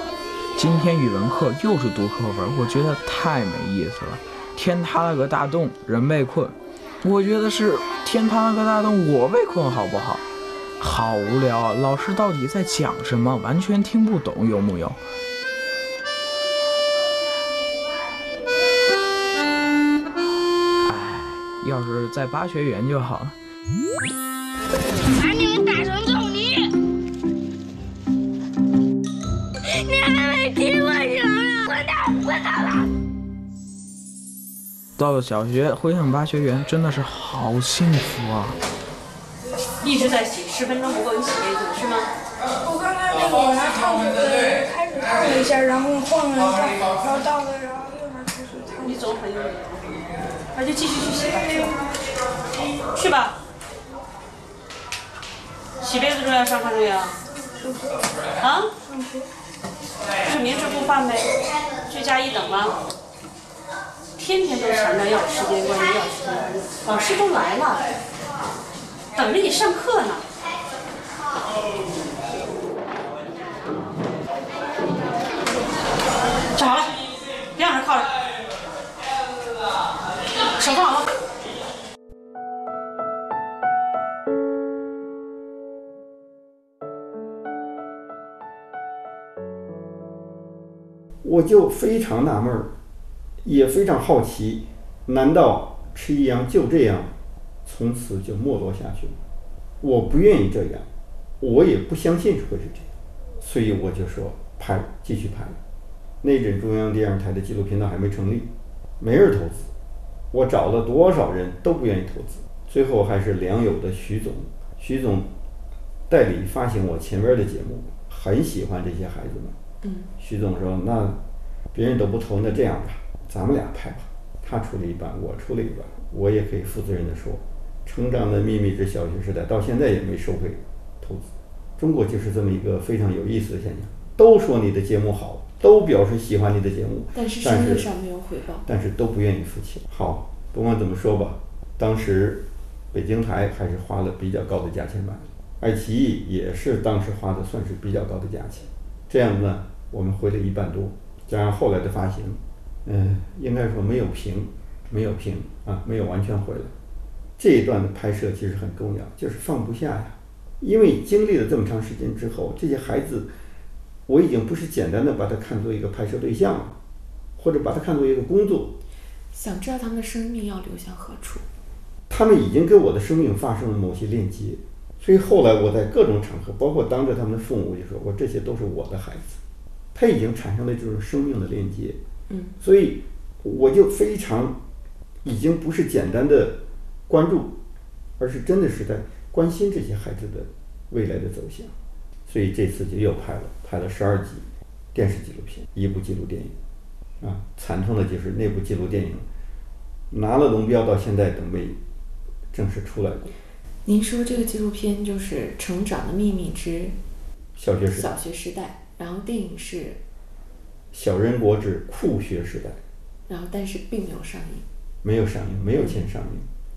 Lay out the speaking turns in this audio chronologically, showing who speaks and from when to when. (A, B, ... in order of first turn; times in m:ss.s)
0:00.5-0:10.2 A
0:10.8-0:15.0 A
0:20.8-0:23.4 A
0:25.1-0:26.7 B
0:29.7-0:32.8 B
0:35.0-0:38.6 A
0:39.8-0:42.1 C
0:42.6-0:49.1 D
0:48.8-0:50.0 C
0:50.5-0:51.8 C
0:52.9-0:53.4 C
0:55.8-0:57.1 C
0:57.6-0:58.0 D
0:58.4-0:58.7 C
0:58.8-0:59.3 D
1:00.2-1:02.8 C
1:04.2-1:07.8 C
1:09.1-1:10.2 C
1:16.5-1:18.2 C
1:20.5-1:21.1 C
1:31.2-1:32.7 E
1:33.4-1:37.1 E
1:37.6-1:39.2 E
1:39.8-1:40.9 E
1:41.4-1:45.6 E
1:46.2-1:49.7 E
1:50.3-1:55.3 E
1:56.1-1:59.6 E
1:59.8-2:00.1 F
2:00.2-2:01.2 E
2:01.7-2:17.9 E
2:17.1-2:18.6 F
2:18.6-2:36.7 E
2:37.4-2:43.3 E
2:44.1-2:46.8 E
2:47.4-2:48.8 E
2:49.3-2:51.4 F
2:52.1-2:59.4 E
2:59.9-3:02.0 E
3:02.3-3:02.5 F
3:02.6-3:04.6 E
3:05.2-3:07.6 E
3:08.2-3:11.7 E
3:12.3-3:16.5 E
3:17.2-3:19.2 E
3:20.1-3:21.8 E
3:22.5-3:23.3 E
3:23.8-3:27.0 F
3:27.6-3:28.1 E
3:27.9-3:30.0 F
3:30.9-3:32.8 E
3:33.3-3:34.6 F
3:35.0-3:36.5 E